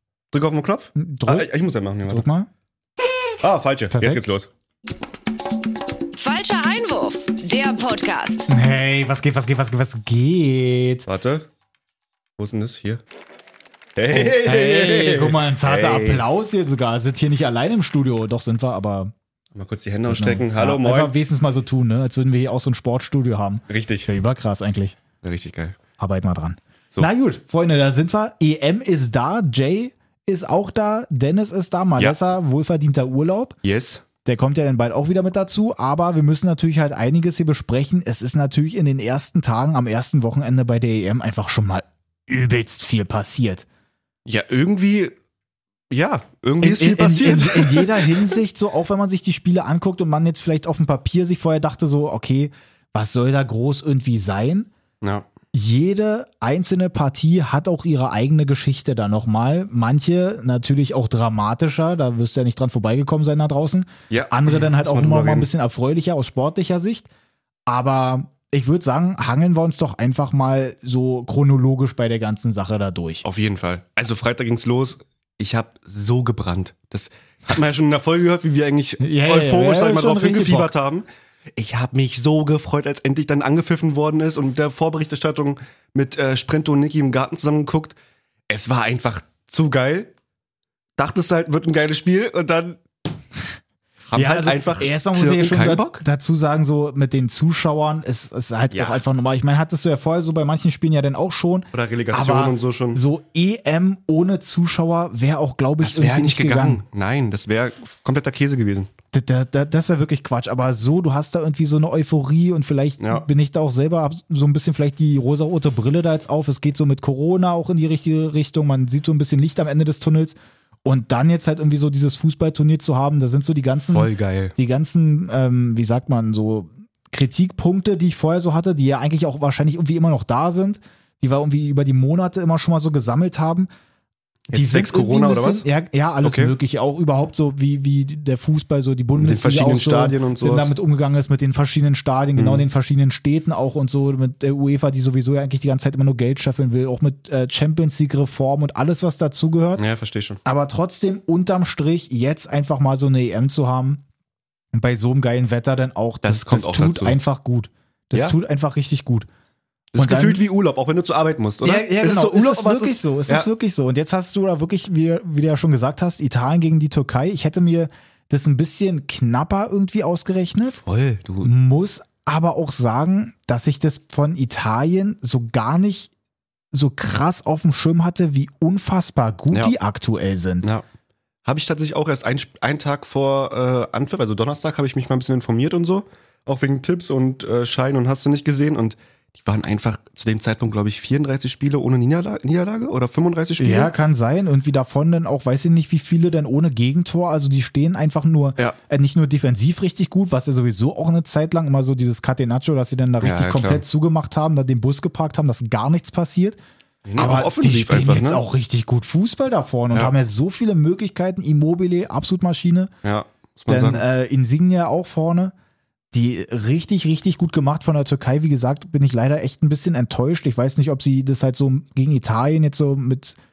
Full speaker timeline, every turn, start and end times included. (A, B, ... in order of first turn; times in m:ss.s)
0:00.3-0:02.3 A
0:01.0-0:01.5 B
0:02.1-0:02.5 B
0:03.4-0:04.5 A
0:03.9-0:04.2 B
0:06.2-0:08.5 C
0:08.5-0:11.1 B
0:11.1-0:11.5 A
0:12.4-0:13.0 A
0:14.0-0:16.2 A
0:14.1-0:19.1 B
0:19.6-0:21.1 A
0:20.1-0:25.0 B
0:23.7-0:24.1 A
0:25.2-0:25.8 A
0:26.0-0:33.6 B
0:33.6-0:34.0 A
0:34.2-0:43.7 B
0:44.3-0:45.2 A
0:45.9-0:48.4 A
0:46.6-0:54.7 B
0:55.0-0:55.3 A
0:55.5-1:07.1 B
1:04.1-1:05.5 A
1:07.7-1:13.2 B
1:13.2-1:21.1 A
1:19.0-1:20.7 B
1:21.6-1:28.0 A
1:28.5-1:30.1 A
1:31.0-1:32.8 A
1:34.1-1:36.0 A
1:34.2-1:46.8 B
1:38.7-1:39.0 A
1:41.7-1:43.0 A
1:45.8-1:48.9 A
1:49.1-2:13.7 B
1:53.0-1:53.3 A
2:03.9-2:04.6 A
2:14.5-2:15.7 A
2:14.5-2:29.8 B
2:16.2-2:16.5 A
2:19.2-2:20.7 A
2:22.4-2:22.6 A
2:29.8-2:30.4 A
2:30.4-2:34.0 B
2:34.8-2:39.3 B
2:36.2-2:37.2 A
2:39.9-2:43.5 A
2:40.0-2:40.4 B
2:41.6-2:50.8 B
2:50.8-2:51.5 A
2:51.4-2:56.1 B
2:56.7-3:00.7 B
3:01.4-3:13.9 A
3:13.6-3:26.6 B
3:23.2-3:23.8 A
3:27.0-3:28.4 A
3:27.2-3:32.9 B
3:33.0-3:34.0 A
3:33.7-3:35.5 B
3:36.1-3:43.4 B